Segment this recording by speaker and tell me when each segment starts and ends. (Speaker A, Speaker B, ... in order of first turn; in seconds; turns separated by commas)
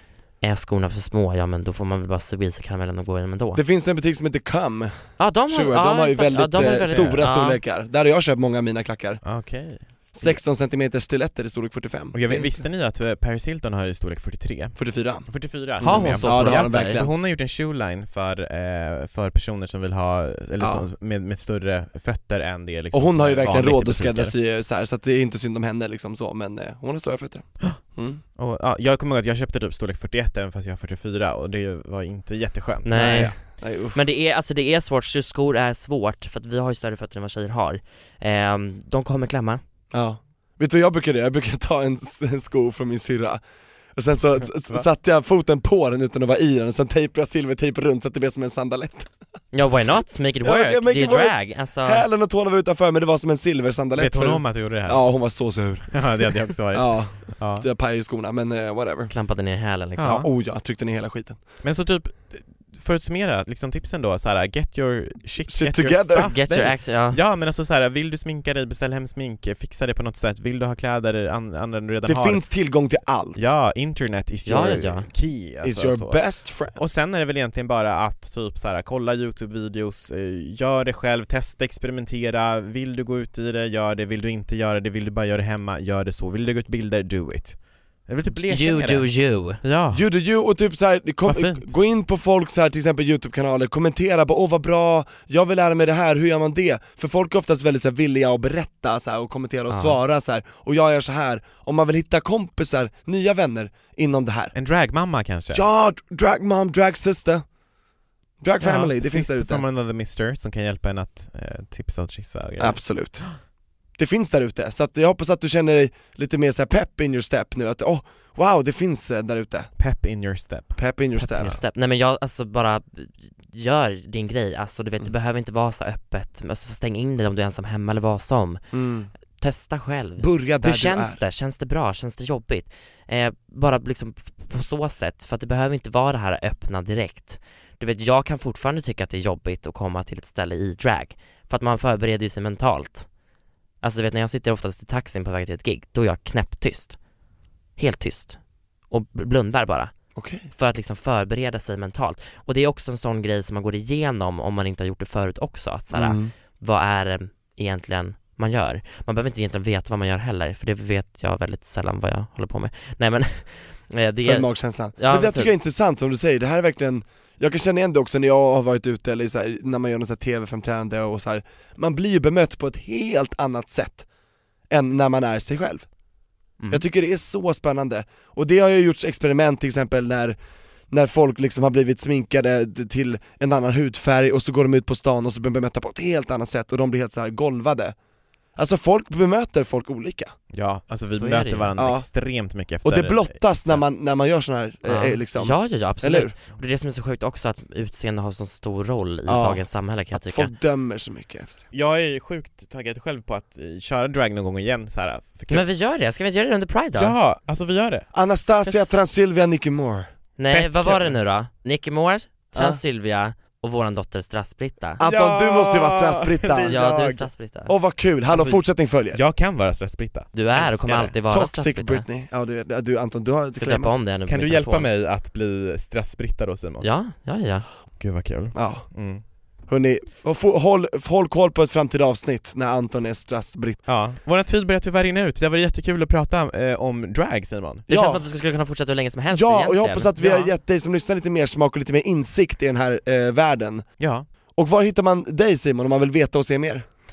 Speaker A: 0.4-3.6, Speaker B: 3.5-9.3, Speaker A: 5.2-7.6, Speaker C: 6.6-7.3, Speaker C: 9.2-10.4, Speaker B: 10.1-12.6, Speaker C: 12.1-24.3, Speaker B: 14.8-17.1, Speaker A: 15.8-17.0, Speaker B: 20.6-20.8, Speaker B: 22.9-28.2, Speaker C: 28.3-33.3, Speaker A: 32.8-33.4, Speaker B: 32.9-34.0, Speaker A: 33.9-39.6, Speaker B: 39.9-43.4, Speaker B: 43.9-49.1, Speaker A: 49.5-52.0, Speaker B: 50.4-59.1, Speaker C: 54.0-55.1, Speaker C: 55.9-57.6, Speaker A: 59.1-60.2, Speaker C: 60.0-60.3, Speaker B: 60.0-61.4, Speaker C: 61.6-72.5, Speaker B: 65.5-66.3, Speaker A: 66.2-67.2, Speaker B: 72.0-73.4, Speaker C: 73.3-90.0, Speaker A: 74.5-75.1, Speaker B: 75.6-76.8, Speaker A: 88.5-89.6, Speaker B: 89.9-104.5, Speaker C: 91.2-91.7, Speaker A: 99.7-100.0, Speaker C: 104.5-105.6, Speaker B: 105.5-107.4, Speaker B: 108.4-109.6, Speaker C: 108.6-113.3, Speaker B: 112.6-113.4, Speaker B: 114.0-119.7, Speaker C: 119.8-120.8, Speaker B: 120.8-121.6, Speaker A: 121.2-128.6, Speaker B: 128.7-129.1, Speaker A: 129.4-143.1, Speaker B: 130.2-131.2, Speaker A: 143.8-147.0, Speaker A: 147.8-149.9, Speaker B: 150.2-150.5, Speaker A: 150.5-165.5, Speaker B: 155.9-156.3, Speaker B: 164.2-174.1, Speaker B: 174.7-175.9, Speaker A: 176.6-176.8, Speaker B: 176.7-180.4, Speaker B: 180.9-187.9, Speaker B: 188.6-190.3, Speaker C: 190.5-193.8, Speaker A: 191.1-191.7, Speaker B: 191.8-192.1, Speaker B: 192.8-196.3, Speaker A: 194.9-200.5, Speaker B: 199.3-201.6, Speaker C: 201.7-205.7, Speaker A: 205.5-207.2, Speaker C: 206.9-208.1, Speaker B: 208.1-210.1, Speaker A: 210.4-215.0, Speaker C: 210.5-211.2, Speaker B: 212.5-212.8, Speaker B: 215.0-216.8, Speaker C: 215.0-217.3, Speaker A: 216.7-217.7, Speaker B: 217.7-219.2, Speaker C: 218.3-221.1, Speaker A: 220.3-222.1, Speaker B: 221.0-223.9, Speaker A: 223.6-224.9, Speaker C: 224.2-226.9, Speaker A: 226.8-227.6, Speaker C: 228.0-229.2, Speaker B: 228.5-233.8, Speaker C: 233.9-237.9, Speaker B: 237.9-238.2, Speaker A: 237.9-240.5, Speaker B: 239.3-243.9, Speaker C: 244.0-244.3, Speaker B: 244.5-246.8